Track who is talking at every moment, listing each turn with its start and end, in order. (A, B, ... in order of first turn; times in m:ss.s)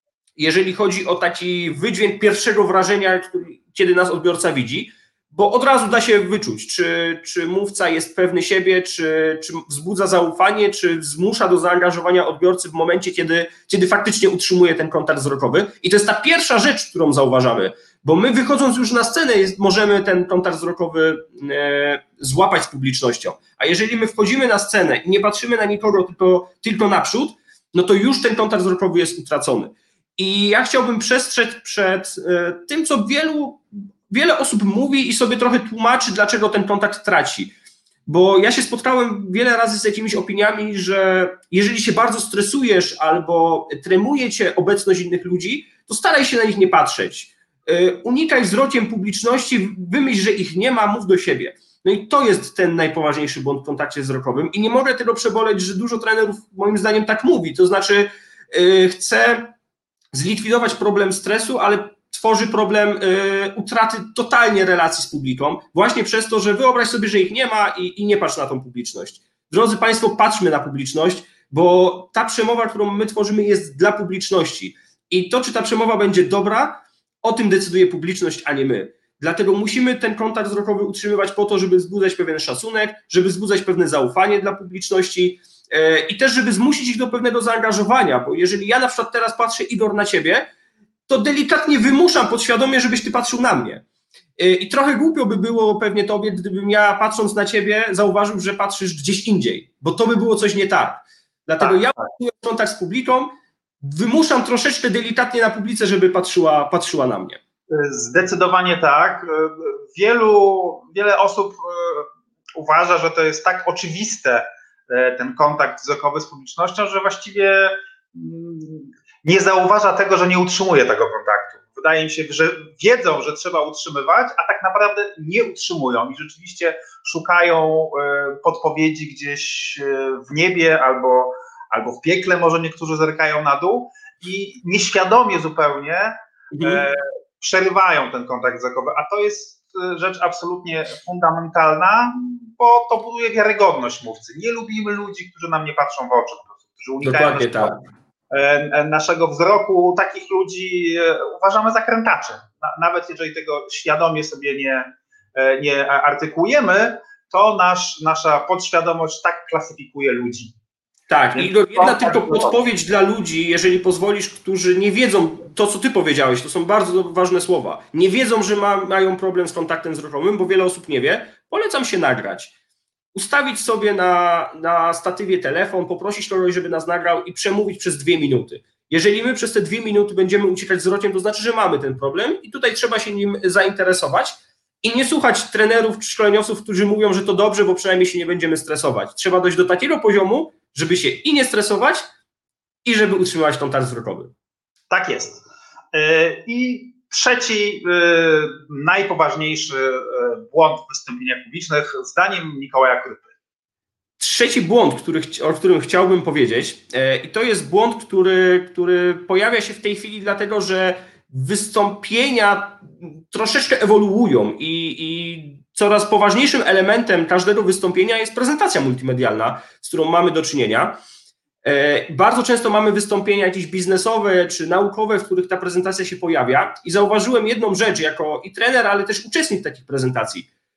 0:00.4-0:37.5 A
0:38.1-0:59.5 A
1:00.1-1:30.4 A
1:31.1-1:33.8 A
1:34.4-1:43.3 A
1:43.8-1:47.4 A
1:47.7-2:27.8 B
2:16.5-2:16.8 A
2:27.0-2:27.8 A
2:28.3-2:34.8 B
2:35.4-2:40.5 B
2:41.1-2:52.5 A
2:41.4-2:42.6 B
2:53.1-3:12.0 A
3:12.8-3:14.3 A
3:14.9-3:15.4 B
3:15.9-3:23.3 B
3:24.2-3:41.0 A
3:41.6-3:50.5 A